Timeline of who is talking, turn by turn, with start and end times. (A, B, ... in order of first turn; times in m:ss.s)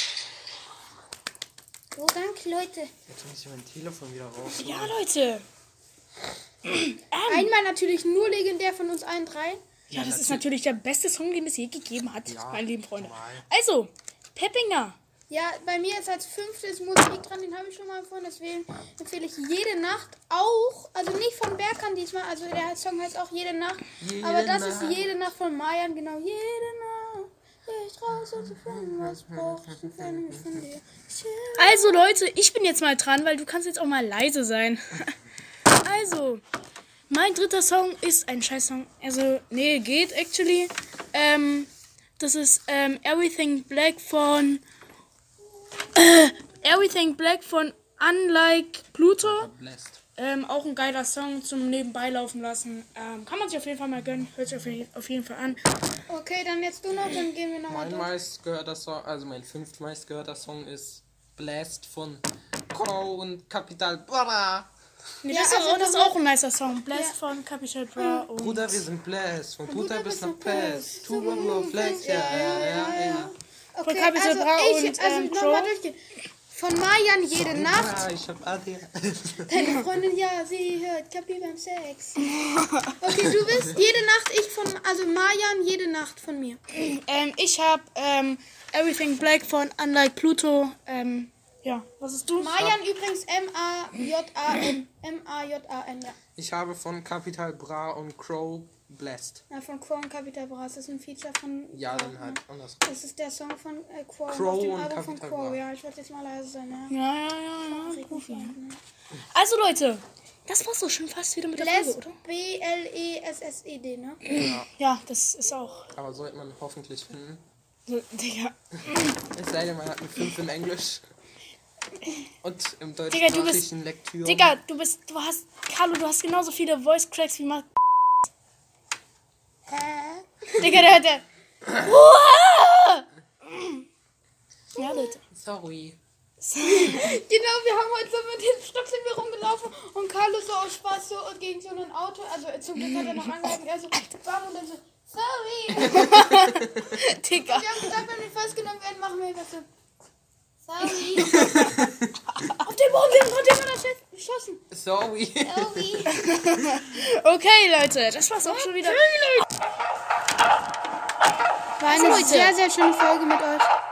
0:01.9-0:02.9 A
0:03.1-0:05.0 B
0:04.6-0:05.4 C
0:06.6-0:07.5 C
0:07.2-0:09.6 A
0:09.9-0:10.4 B
0:09.9-0:15.0 C
0:12.2-0:13.4 B
0:15.3-0:32.2 A
0:24.0-0:25.1 B
0:28.1-0:30.6 B
0:31.6-0:35.1 C
0:35.8-0:36.4 C
0:37.1-0:44.6 C
0:45.9-0:49.5 C
0:49.2-0:50.0 B
0:50.2-0:55.6 C
0:56.1-0:58.1 A
0:57.7-1:04.7 B
1:05.2-1:08.8 C
1:05.3-1:06.2 A
1:06.9-1:07.2 A
1:08.0-1:08.3 A
1:08.4-1:13.3 B
1:09.7-1:16.0 A
1:12.0-1:12.7 C
1:13.8-1:15.8 C
1:16.5-1:18.0 A
1:17.3-1:19.5 B
1:19.5-1:22.3 A
1:22.2-1:22.9 C
1:23.0-1:26.6 A
1:26.7-1:32.6 C
1:32.4-1:36.2 A
1:36.4-1:39.4 B
1:39.5-1:46.9 A
1:41.7-1:42.8 B
1:44.3-1:45.6 B
1:46.9-1:48.5 C
1:47.7-1:48.8 A
1:49.3-1:52.2 C
1:51.5-1:54.2 A
1:54.2-1:55.9 C
1:54.3-1:54.7 B
1:55.9-1:57.4 B
1:57.9-1:59.2 C
1:59.2-2:01.0 B
2:02.4-2:04.6 B
2:03.1-2:03.6 C
2:04.2-2:07.7 C
2:09.7-2:10.7 A
2:10.6-2:13.8 C
2:14.7-2:15.1 A
2:14.8-2:15.2 C
2:15.3-2:16.0 B
2:16.4-2:17.2 C
2:16.6-2:26.6 A
2:22.8-2:23.5 C
2:25.8-2:27.9 C
2:27.3-2:29.6 A
2:30.6-2:31.5 A
2:30.8-2:31.6 C
2:31.2-2:31.9 B
2:32.6-2:34.6 A
2:34.7-2:35.9 B
2:35.4-2:36.2 A
2:36.1-2:39.4 C
2:38.4-2:39.2 A
2:41.8-2:43.7 A
2:41.9-2:42.5 C